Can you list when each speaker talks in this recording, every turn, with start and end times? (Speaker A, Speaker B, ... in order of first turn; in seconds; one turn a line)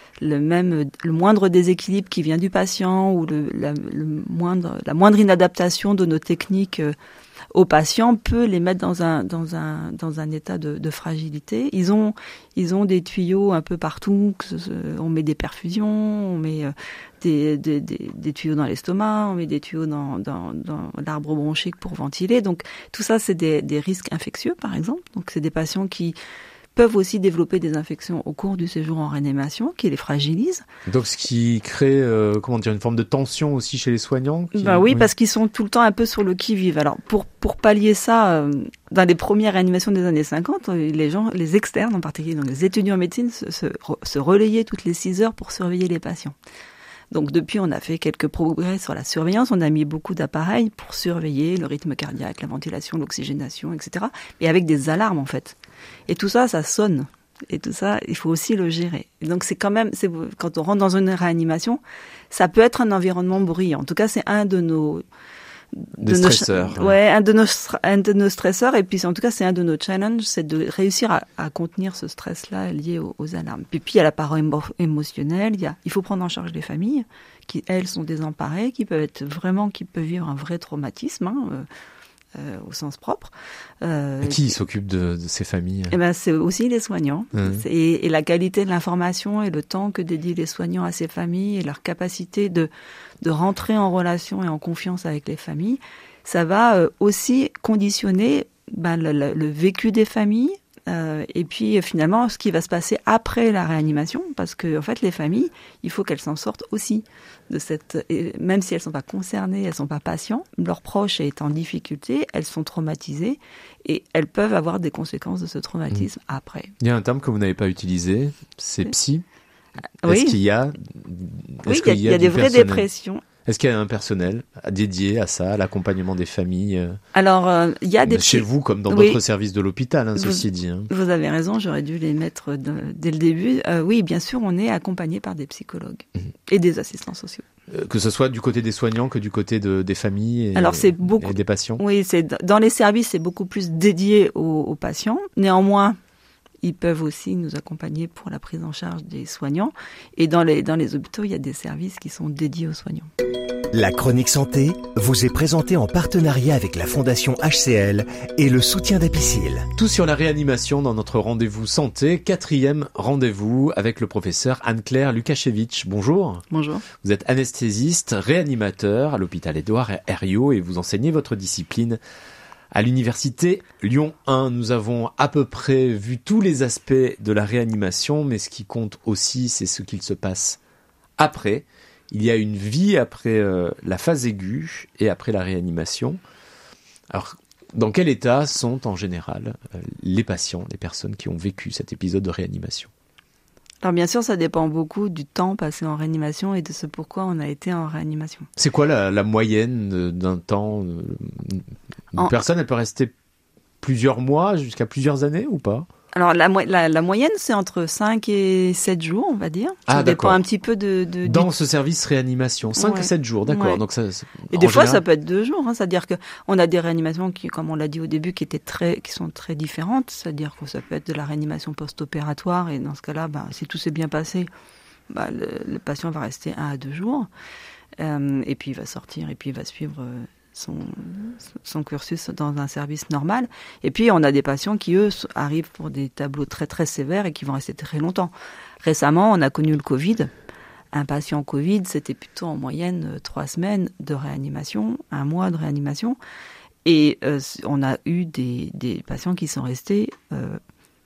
Speaker A: 0.2-6.9
Speaker A: 7.5-26.2
Speaker A: 26.8-30.6
Speaker B: 30.9-35.1
Speaker A: 34.5-46.4
Speaker A: 47.1-55.6
Speaker A: 56.1-65.0
Speaker A: 65.7-81.7
Speaker B: 66.0-67.0
Speaker A: 82.4-84.6
Speaker B: 84.2-86.0
Speaker A: 85.9-92.7
Speaker B: 87.3-87.6
Speaker A: 93.2-116.7
Speaker B: 116.8-119.2
Speaker A: 120.0-120.3
Speaker B: 120.0-122.9
Speaker A: 121.7-123.2
Speaker B: 123.5-127.0
Speaker A: 127.1-129.2
Speaker B: 128.1-130.9
Speaker A: 130.2-137.4
Speaker B: 137.7-141.8
Speaker A: 140.6-146.0
Speaker A: 146.6-153.1
Speaker C: 153.7-159.7
Speaker B: 159.8-166.4
Speaker A: 166.5-166.8
Speaker B: 167.0-172.0
Speaker B: 172.7-180.6
Speaker B: 181.2-186.2
Speaker B: 187.1-192.9
Speaker A: 193.8-198.5
Speaker B: 198.6-203.1
Speaker B: 203.8-205.9
Speaker A: 206.1-211.5
Speaker B: 209.9-210.4
Speaker B: 211.3-215.0
Speaker A: 212.8-213.8
Speaker A: 214.5-224.5
Speaker A: 225.1-227.3
Speaker A: 228.0-240.3
Speaker A: 240.9-246.2
Speaker A: 246.8-250.6